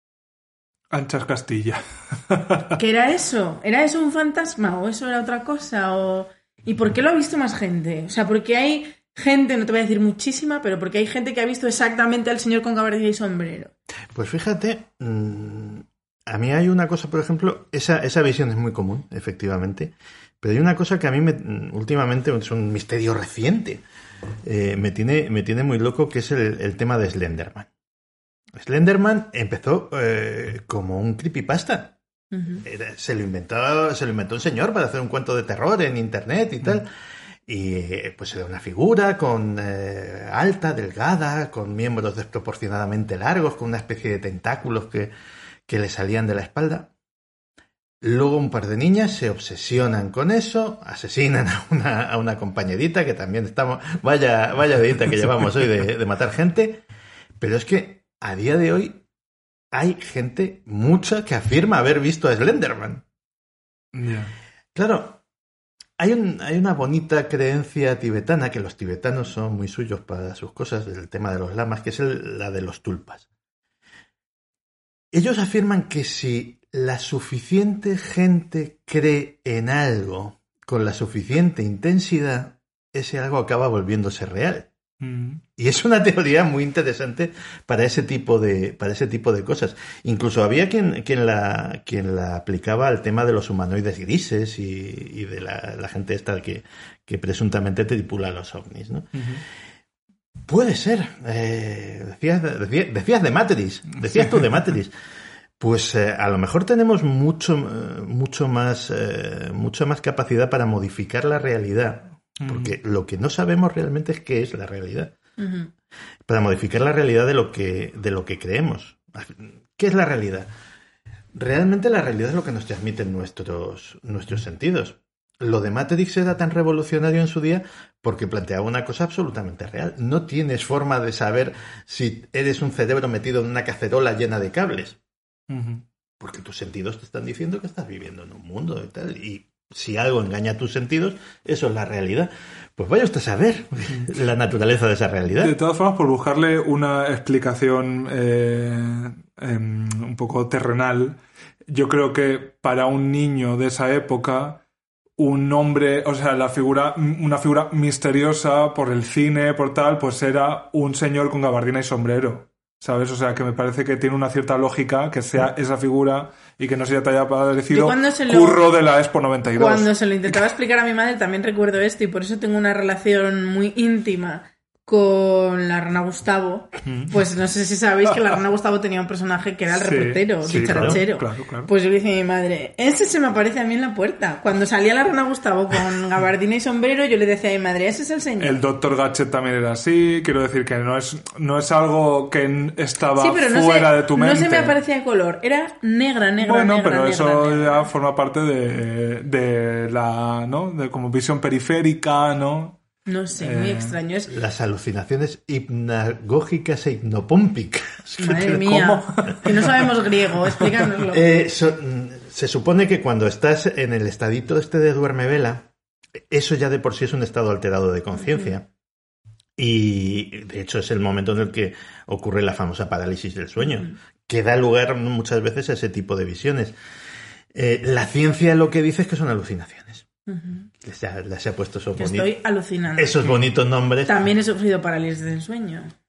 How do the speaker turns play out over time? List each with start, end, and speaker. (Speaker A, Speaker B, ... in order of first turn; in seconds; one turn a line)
Speaker A: 0.9-2.7
Speaker B: 2.8-13.7
Speaker C: 14.1-23.8
Speaker C: 24.4-27.7
Speaker C: 28.6-32.0
Speaker B: 32.3-32.6
Speaker C: 32.6-36.9
Speaker C: 37.5-45.1
Speaker C: 45.7-46.9
Speaker C: 48.0-56.8
Speaker C: 57.4-59.0
Speaker C: 59.7-63.0
Speaker A: 63.9-64.3
Speaker C: 64.8-65.2
Speaker C: 66.0-73.3
Speaker C: 75.1-84.7
Speaker A: 85.0-85.4
Speaker C: 85.6-99.2
Speaker A: 99.2-99.4
Speaker C: 100.5-104.9
Speaker C: 105.6-115.2
Speaker A: 112.4-112.7
Speaker B: 115.4-115.7
Speaker C: 116.3-120.5
Speaker C: 121.3-135.0
Speaker A: 135.5-135.8
Speaker C: 136.2-145.6
Speaker A: 145.3-154.6
Speaker A: 155.2-169.9
Speaker B: 167.7-168.6
Speaker B: 169.5-188.6
Speaker A: 176.9-177.2
Speaker A: 179.8-181.7
Speaker C: 180.5-181.0
Speaker A: 188.4-194.8
Speaker B: 193.2-197.9
Speaker A: 196.4-202.8
Speaker B: 203.1-204.3
Speaker A: 203.4-204.0
Speaker C: 204.3-209.5
Speaker B: 208.2-211.3
Speaker C: 211.1-215.7
Speaker C: 216.3-218.7
Speaker B: 218.3-218.5
Speaker C: 219.6-226.7
Speaker C: 227.5-230.1
Speaker B: 230.3-230.7
Speaker C: 230.8-232.3
Speaker B: 232.0-233.2
Speaker C: 233.0-234.2
Speaker B: 234.1-235.9